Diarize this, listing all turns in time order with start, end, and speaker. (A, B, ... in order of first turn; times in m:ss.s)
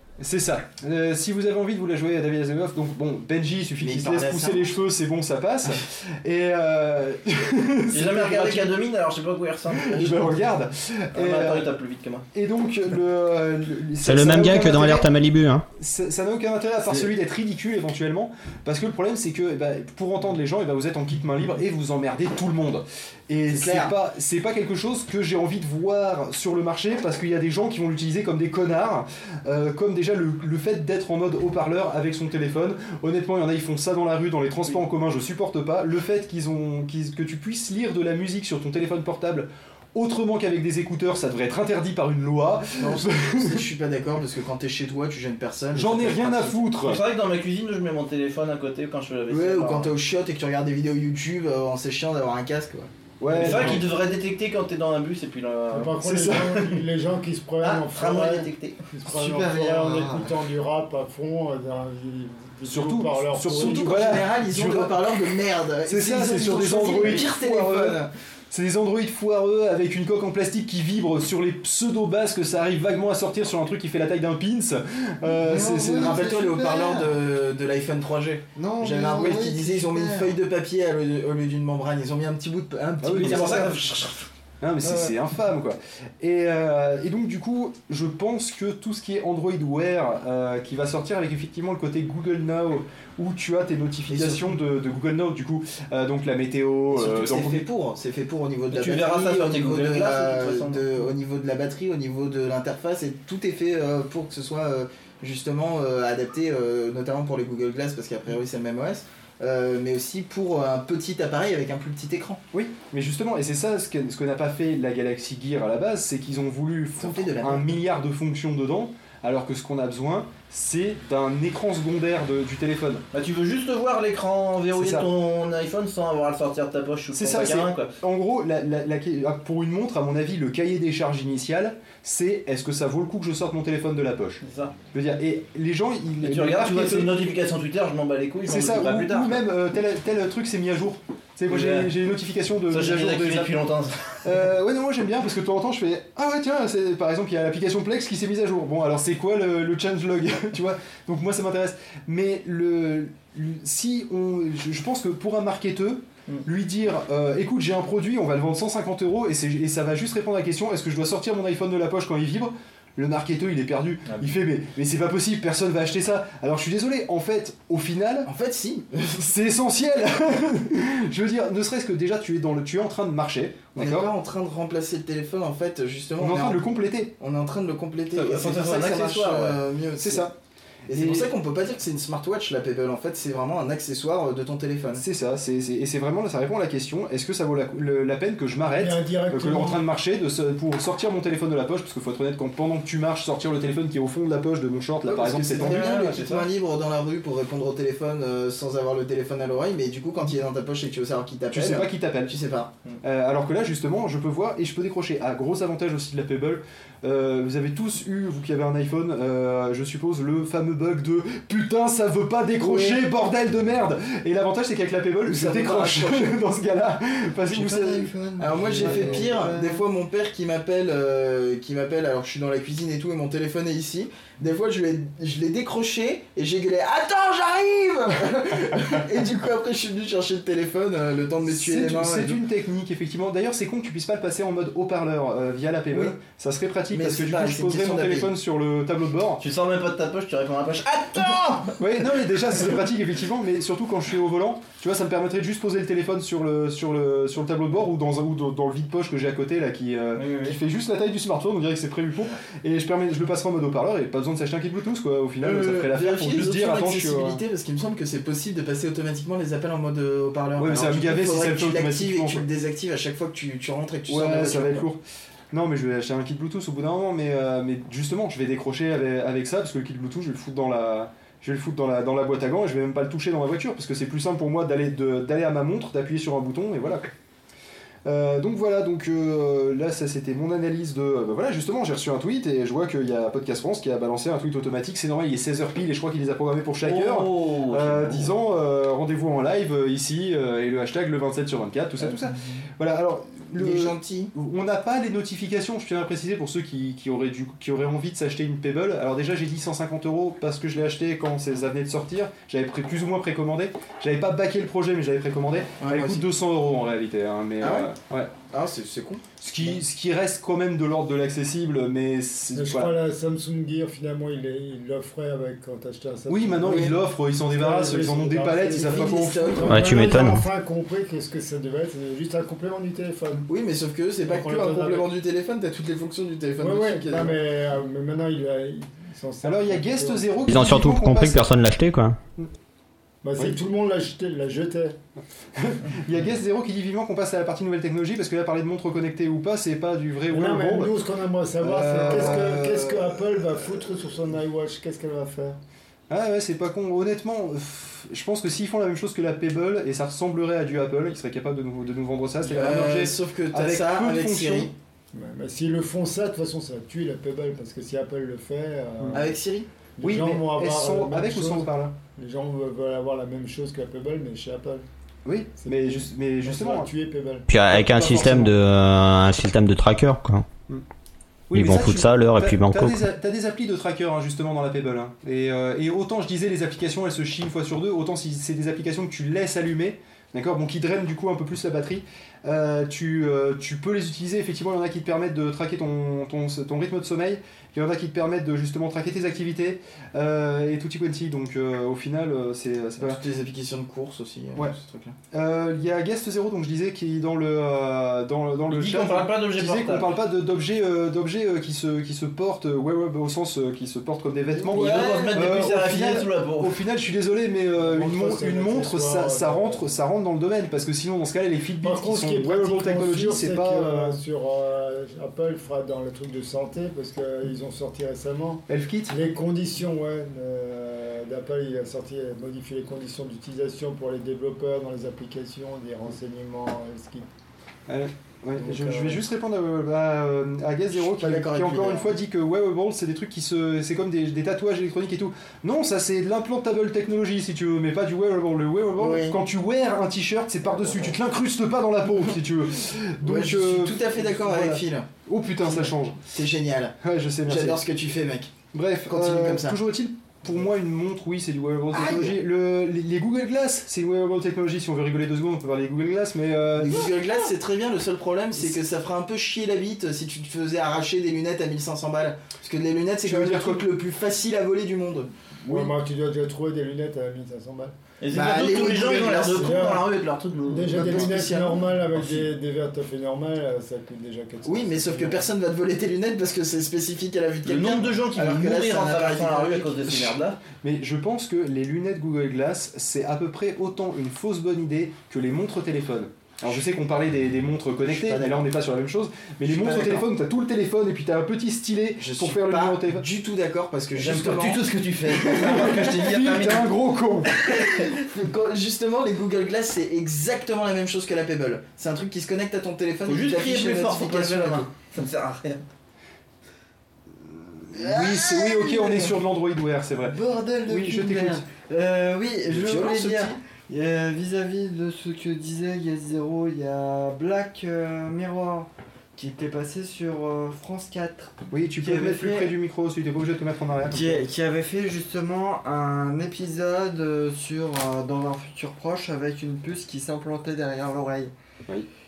0:00.2-0:08.7 A
0:03.8-0:04.7 B
0:07.9-0:10.4 C
0:09.7-0:11.7 A
0:11.1-0:12.2 C
0:12.3-0:15.1 A
0:14.0-0:15.6 D
0:15.8-0:43.7 A
0:23.5-0:23.9 B
0:42.8-0:46.6 B
0:45.7-0:47.0 A
0:46.8-0:49.9 C
0:49.3-0:52.9 B
0:53.2-0:53.9 A
0:53.3-0:53.8 E
0:53.4-0:56.0 C
0:55.7-1:04.0 E
0:56.0-0:56.8 A
0:57.6-0:58.8 C
0:59.0-1:00.3 F
1:02.6-1:05.1 A
1:03.5-1:08.1 B
1:05.9-1:16.3 A
1:15.3-1:17.2 F
1:15.5-1:24.1 B
1:18.6-1:20.4 F
1:23.0-1:23.7 A
1:23.1-1:24.3 C
1:24.6-1:37.7 A
1:34.1-1:34.6 B
1:36.9-1:52.4 B
1:38.7-1:41.1 C
1:52.5-2:03.0 A
1:57.0-1:57.8 B
2:03.1-2:07.9 C
2:04.7-2:05.1 A
2:07.1-2:14.4 A
2:14.4-2:14.8 C
2:14.9-2:17.1 A
2:16.2-2:19.4 C
2:18.4-2:23.5 A
2:21.5-2:21.9 C
2:22.7-2:24.2 C
2:24.2-2:48.3 A
2:48.3-2:49.2 B
2:49.2-2:54.1 A
2:53.8-2:56.6 B
2:56.2-2:57.1 A
2:57.2-3:00.3 B
2:58.1-2:59.6 C
3:00.0-3:00.3 A
3:00.9-3:05.0 B
3:00.9-3:01.3 A
3:05.0-3:16.2 A
3:08.8-3:09.8 E
3:15.0-3:22.7 B
3:15.5-3:16.5 C
3:21.5-3:22.3 A
3:23.0-3:39.4 A
3:32.6-3:33.0 B
3:35.3-3:36.4 B
3:37.5-3:39.8 F
3:38.4-3:52.4 B
3:51.4-3:59.4 A
3:55.9-3:56.2 B
3:56.9-3:58.3 B
3:59.4-4:01.8 C
4:01.8-4:17.4 A
4:10.2-4:10.6 C
4:15.4-4:24.9 B
4:20.6-4:22.5 A
4:24.1-4:37.1 A
4:38.0-5:08.3 A
4:46.8-4:48.3 C
4:53.6-4:54.3 B
5:05.8-5:06.2 B
5:07.6-5:07.9 B
5:08.5-5:09.8 B
5:09.4-5:13.0 A
5:12.6-5:23.5 E
5:16.3-5:19.7 A
5:16.6-5:17.0 B
5:18.7-5:19.8 B
5:19.7-5:20.4 D
5:23.5-5:27.4 B
5:24.3-5:25.1 E
5:26.6-5:30.6 E
5:29.4-5:31.5 A
5:30.5-5:32.2 D
5:33.2-5:35.0 E
5:35.6-5:41.0 A
5:40.3-5:45.6 E
5:41.6-5:43.4 A
5:46.1-5:54.7 A
5:52.5-5:54.7 B
5:55.1-5:59.4 E
5:59.1-5:59.7 B
6:00.0-6:04.8 E
6:00.0-6:02.0 A
6:05.2-6:06.9 A
6:05.6-6:07.5 E
6:07.5-6:10.4 D
6:07.7-6:08.6 A
6:11.5-6:33.2 A
6:11.5-6:13.0 D
6:33.0-6:35.2 B
6:35.3-6:54.2 A
6:38.7-6:40.2 C
6:44.6-6:45.4 B
6:44.7-6:46.8 C
6:47.8-6:49.8 E
6:51.8-7:07.3 E
6:58.7-6:59.2 A
7:07.9-7:26.2 A
7:08.6-7:09.2 E
7:10.9-7:12.1 B
7:19.0-7:19.4 B
7:20.8-7:21.1 B
7:23.2-7:25.1 B
7:25.6-7:28.5 B
7:27.0-7:27.8 A
7:28.7-7:37.1 A
7:29.1-7:29.8 B
7:31.9-7:32.4 B
7:36.8-7:45.3 B
7:43.2-7:43.9 A
7:45.6-7:45.9 A
7:45.7-7:47.9 E
7:48.2-7:51.3 C
7:48.3-7:49.8 B
7:49.5-7:50.0 E
7:50.7-7:55.5 E
7:50.9-7:52.5 B
7:54.6-8:00.1 B
7:57.6-8:00.6 C
8:00.1-8:13.2 A
8:08.3-8:08.6 B
8:09.7-8:10.3 B
8:12.2-8:14.8 B
8:14.2-8:16.9 C
8:15.4-8:16.8 B
8:15.4-8:17.6 A
8:17.6-8:24.9 B
8:23.3-8:25.8 C
8:27.5-8:31.6 A
8:27.9-8:29.4 F
8:30.2-8:42.8 F
8:32.7-8:33.6 B
8:32.7-8:33.0 A
8:41.7-8:44.4 A
8:44.1-8:51.5 F